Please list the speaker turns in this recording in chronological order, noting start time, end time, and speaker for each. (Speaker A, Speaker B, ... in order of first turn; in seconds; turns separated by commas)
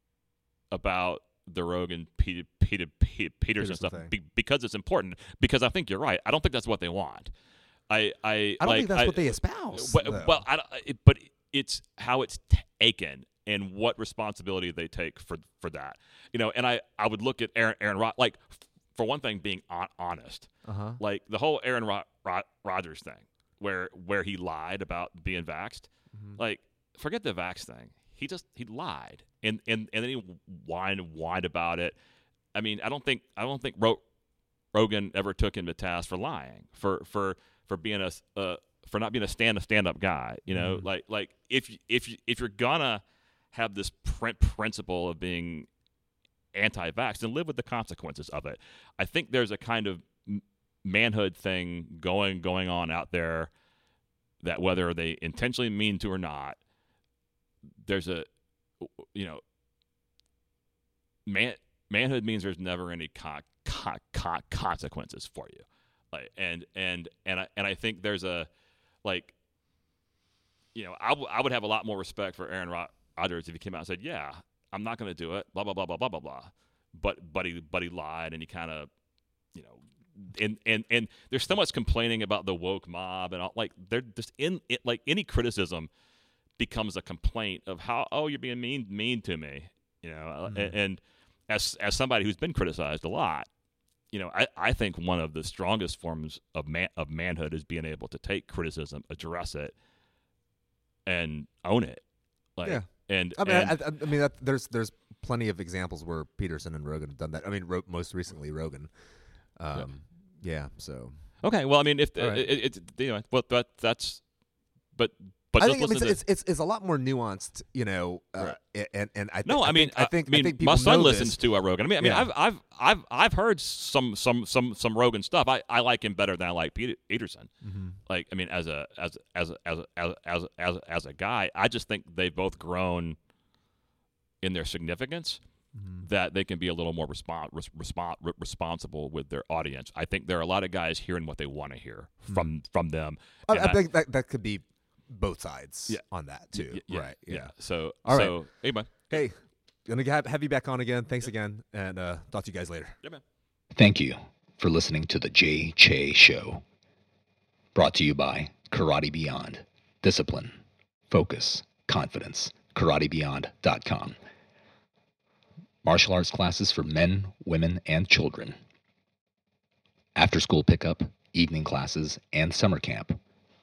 Speaker A: 0.7-7.3, Speaker B: 3.6-4.1, Speaker A: 7.9-31.9, Speaker B: 8.6-10.4, Speaker B: 20.6-21.0, Speaker A: 32.5-34.0, Speaker A: 34.7-45.7, Speaker B: 40.5-40.9, Speaker A: 46.5-53.5, Speaker A: 54.4-56.6, Speaker A: 57.8-58.3, Speaker A: 58.8-59.4, Speaker A: 61.2-68.5, Speaker A: 69.0-69.3, Speaker A: 70.7-78.9, Speaker A: 79.5-85.9, Speaker A: 86.6-93.5, Speaker B: 90.5-90.7, Speaker A: 94.1-99.7, Speaker A: 101.0-102.0, Speaker A: 102.5-103.8, Speaker B: 102.6-108.9, Speaker B: 109.5-111.2, Speaker A: 111.4-114.2, Speaker B: 112.2-112.5, Speaker A: 114.9-116.2, Speaker B: 115.6-121.4, Speaker A: 119.4-127.5, Speaker B: 122.0-122.3, Speaker B: 127.6-128.0, Speaker A: 128.1-133.2, Speaker A: 134.4-135.4, Speaker B: 135.8-136.0, Speaker A: 136.0-143.8, Speaker B: 142.3-142.5, Speaker B: 143.5-147.5, Speaker A: 145.9-149.1, Speaker B: 148.0-148.4, Speaker B: 149.1-153.0, Speaker C: 153.7-156.6, Speaker C: 157.7-160.6, Speaker C: 161.1-164.2, Speaker C: 165.8-168.6, Speaker C: 170.1-173.2